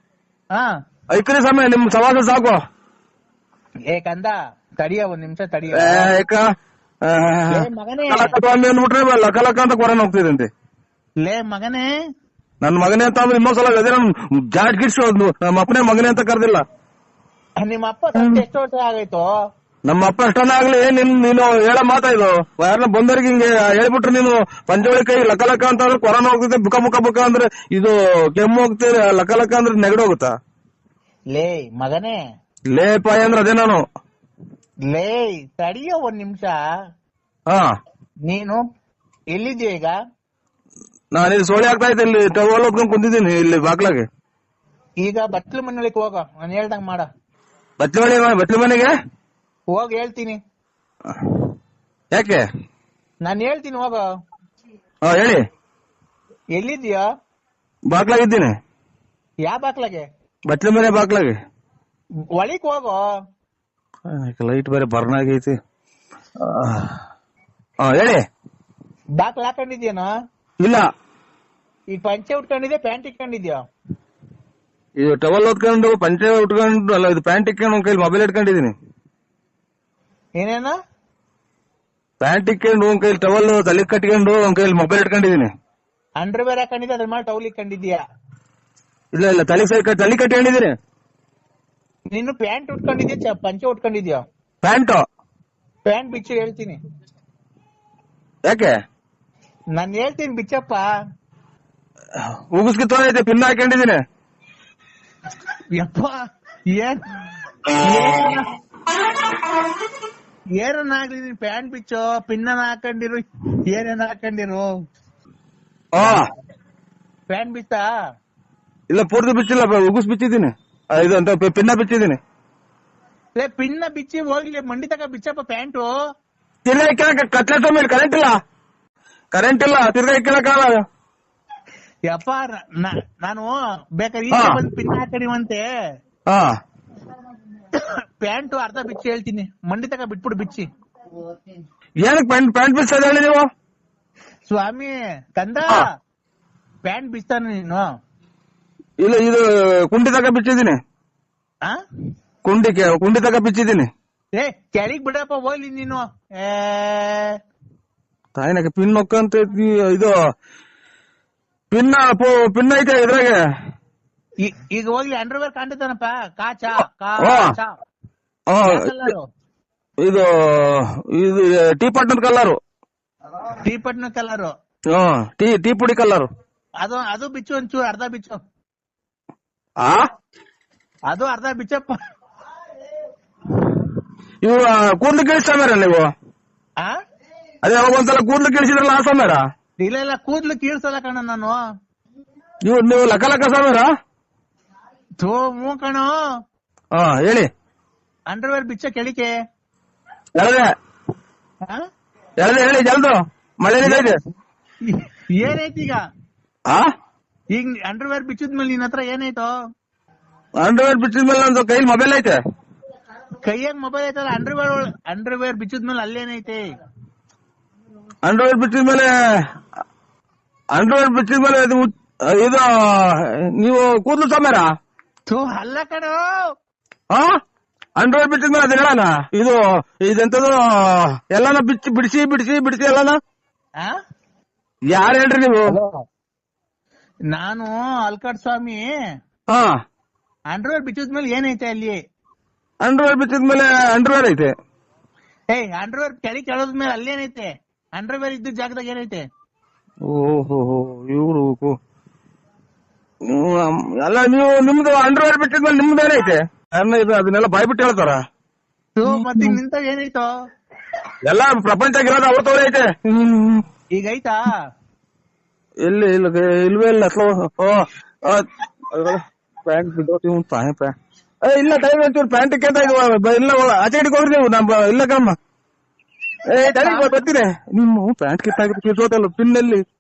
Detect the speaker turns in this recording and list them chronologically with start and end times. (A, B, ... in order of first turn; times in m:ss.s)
0:01.1-0:02.6 A
0:03.9-0:06.1 B
0:05.8-0:10.5 A
0:07.5-0:08.3 B
0:11.2-0:11.9 B
0:12.6-0:16.6 A
0:17.6-0:19.3 B
0:18.2-0:18.4 A
0:19.9-0:30.3 A
0:31.4-0:32.2 B
0:32.7-0:33.8 A
0:34.9-0:36.6 B
0:38.3-0:38.6 B
0:39.3-0:40.0 B
0:41.1-0:44.0 A
0:45.0-0:47.1 B
0:47.8-0:48.9 A
0:49.7-0:50.4 B
0:51.1-0:51.5 A
0:52.1-0:52.4 A
0:53.2-0:54.0 B
0:55.0-0:55.4 A
0:56.6-0:57.0 B
0:57.9-0:58.6 A
0:59.4-1:00.1 B
1:00.5-1:01.4 A
1:02.4-1:03.0 B
1:04.1-1:05.6 A
1:06.4-1:07.0 A
1:07.8-1:08.2 A
1:09.2-1:10.1 B
1:10.6-1:10.9 A
1:11.9-1:13.6 B
1:15.0-1:18.7 A
1:20.4-1:20.7 B
1:22.2-1:25.5 A
1:26.2-1:28.0 B
1:29.1-1:30.8 A
1:32.1-1:34.2 B
1:34.6-1:35.0 A
1:35.9-1:36.8 B
1:38.5-1:38.7 A
1:39.8-1:40.8 B
1:42.2-1:44.0 A
1:45.8-1:46.2 B
1:46.8-1:47.0 B
1:47.8-1:48.5 B
1:50.6-1:54.7 B
1:56.0-1:56.2 A
1:57.3-1:57.8 B
1:58.9-2:02.2 A
2:03.4-2:05.9 B
2:06.7-2:08.4 A
2:09.3-2:10.8 A
2:12.1-2:15.7 B
2:14.3-2:14.7 A
2:16.3-2:16.6 A
2:17.7-2:20.7 B
2:22.0-2:23.5 A
2:24.5-2:25.8 B
2:26.8-2:27.9 B
2:29.0-2:30.8 A
2:32.4-2:33.9 A
2:34.4-2:37.4 B
2:38.4-2:40.2 A
2:41.7-2:43.4 A
2:44.4-2:47.8 B
2:47.2-2:47.5 A
2:48.5-2:49.1 A
2:48.7-2:49.3 B
2:50.0-2:52.6 A
2:53.6-2:54.5 B
2:54.9-2:56.3 A
2:56.8-2:58.4 B
2:59.8-3:00.1 A
3:01.1-3:01.9 B
3:04.4-3:06.1 A
3:07.6-3:09.4 A
3:09.8-3:11.6 B
3:12.7-3:13.9 A
3:15.2-3:16.2 B
3:16.9-3:17.5 A
3:18.3-3:19.3 B
3:20.4-3:20.7 A
3:22.4-3:24.2 A
3:23.8-3:24.1 B
3:24.9-3:26.0 B
3:27.5-3:29.5 B
3:30.6-3:32.4 A
3:33.4-3:36.6 B
3:38.2-3:39.5 A
3:40.7-3:44.7 A
3:45.3-3:46.2 B
3:47.1-3:47.4 A
3:48.0-3:53.2 A
3:54.9-3:55.8 A
3:55.7-3:56.0 B
3:57.3-3:58.8 B
3:59.5-3:59.8 A
4:00.5-4:02.0 B
4:02.8-4:04.5 A
4:05.5-4:09.2 B
4:10.0-4:11.8 A
4:13.3-4:18.2 A
4:19.0-4:20.3 B
4:19.1-4:19.6 A
4:21.3-4:23.6 A
4:24.0-4:24.6 B
4:25.8-4:35.4 A
4:36.5-4:39.8 A
4:36.8-4:37.2 B